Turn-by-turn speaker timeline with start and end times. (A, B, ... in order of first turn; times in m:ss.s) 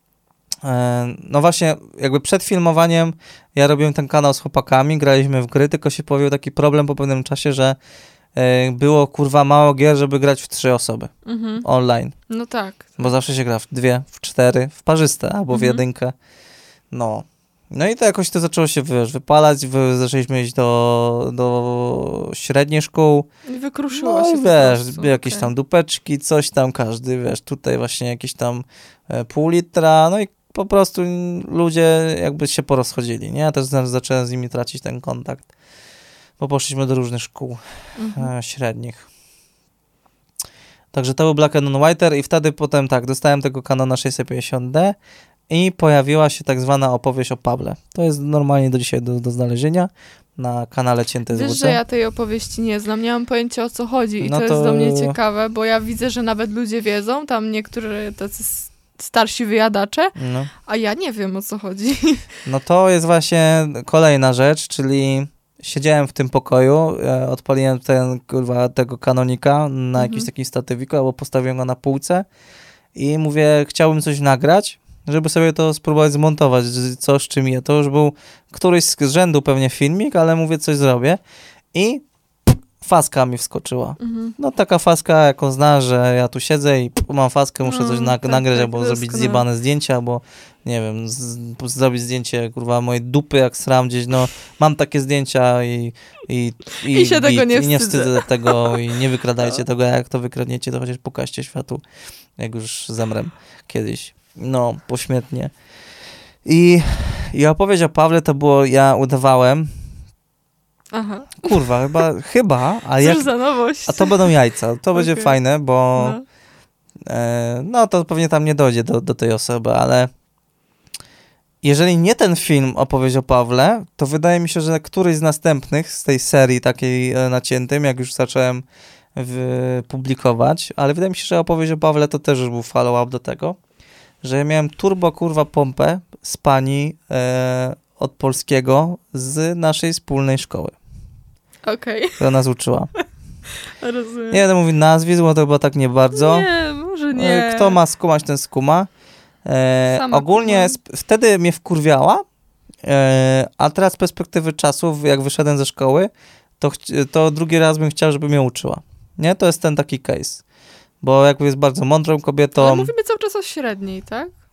0:00.6-0:07.8 A
0:08.3-0:12.2 A
0:11.2-0:11.6 B
0:12.3-0:13.0 B
0:13.0-0:16.1 A
0:15.5-0:15.8 B
0:16.9-0:23.3 A
0:23.4-0:25.5 B
0:23.9-0:35.5 A
0:36.4-0:37.6 A
0:38.0-0:38.3 B
0:38.1-0:39.1 A
0:40.9-0:45.0 A
0:45.5-0:51.8 A
0:51.3-1:02.3 B
0:54.2-0:55.2 A
1:00.2-1:00.5 A
1:02.4-1:12.2 A
1:10.0-1:10.3 B
1:12.9-1:21.2 A
1:21.7-1:41.8 A
1:24.0-1:24.3 B
1:27.6-1:29.4 B
1:36.9-1:39.6 B
1:42.4-1:45.5 A
1:46.4-1:49.8 A
1:50.9-1:52.0 B
1:51.4-1:53.3 A
1:53.0-1:54.3 B
1:53.8-1:56.2 A
1:54.9-1:55.4 B
1:55.9-1:56.2 B
1:57.0-2:00.1 A
2:01.6-2:13.6 A
2:14.2-2:20.7 A
2:21.6-2:22.2 B
2:22.2-2:22.9 A
2:23.5-2:24.4 B
2:24.3-2:26.5 A
2:26.1-2:27.8 B
2:27.1-2:28.9 A
2:29.4-2:32.2 A
2:29.9-2:30.8 B
2:32.8-2:40.4 A
2:41.0-2:42.9 A
2:42.6-2:44.3 B